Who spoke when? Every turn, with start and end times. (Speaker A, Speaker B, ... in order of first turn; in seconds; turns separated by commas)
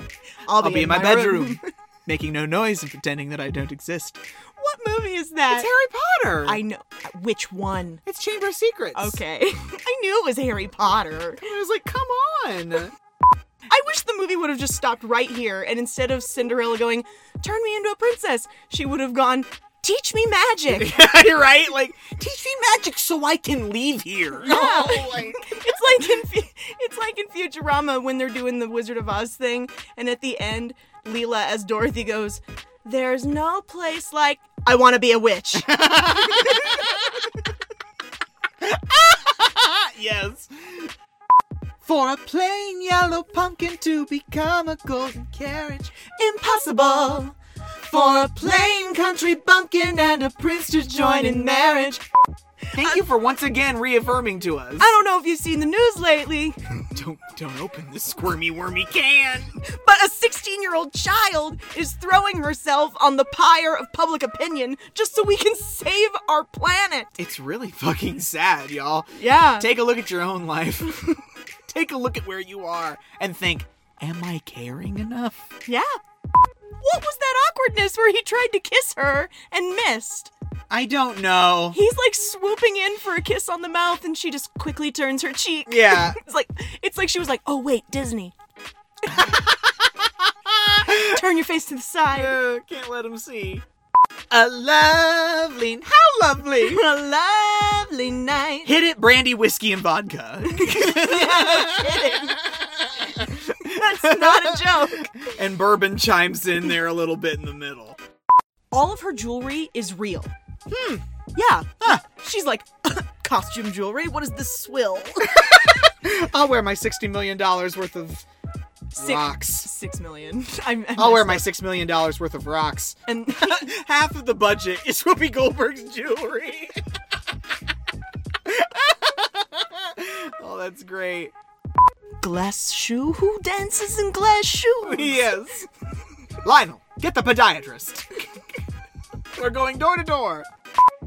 Speaker A: 0.4-1.7, Speaker B: 0.6-4.2, Speaker A: 4.6-5.7, Speaker B: 5.5-6.6, Speaker A: 6.4-8.0, Speaker B: 8.1-9.2, Speaker A: 8.9-11.4, Speaker B: 11.4-12.9, Speaker A: 13.7-21.0, Speaker B: 20.7-25.6, Speaker A: 24.3-36.9, Speaker B: 35.6-37.3, Speaker B: 38.6-40.9, Speaker B: 41.8-47.4, Speaker B: 47.9-52.0, Speaker A: 50.9-52.0, Speaker B: 52.7-54.9, Speaker A: 54.8-56.8, Speaker B: 56.9-59.5, Speaker A: 59.6-67.2, Speaker B: 67.2-75.4, Speaker A: 69.2-69.7, Speaker A: 76.8-80.3, Speaker B: 80.7-81.8, Speaker A: 81.7-88.3, Speaker B: 85.7-86.2, Speaker A: 89.1-89.4, Speaker B: 89.1-91.2, Speaker A: 90.8-92.4, Speaker B: 92.1-93.7, Speaker B: 94.3-96.8, Speaker A: 96.6-98.7, Speaker B: 98.7-108.0, Speaker A: 100.5-102.4, Speaker A: 103.0-105.3, Speaker A: 108.7-110.3, Speaker B: 110.7-111.0, Speaker A: 111.3-115.5, Speaker B: 115.3-118.2, Speaker A: 118.9-121.5, Speaker B: 119.0-119.7, Speaker B: 121.0-126.9, Speaker A: 123.1-123.7, Speaker B: 128.4-131.3, Speaker A: 132.2-135.4, Speaker B: 134.8-135.7, Speaker B: 136.4-138.2, Speaker B: 139.3-140.5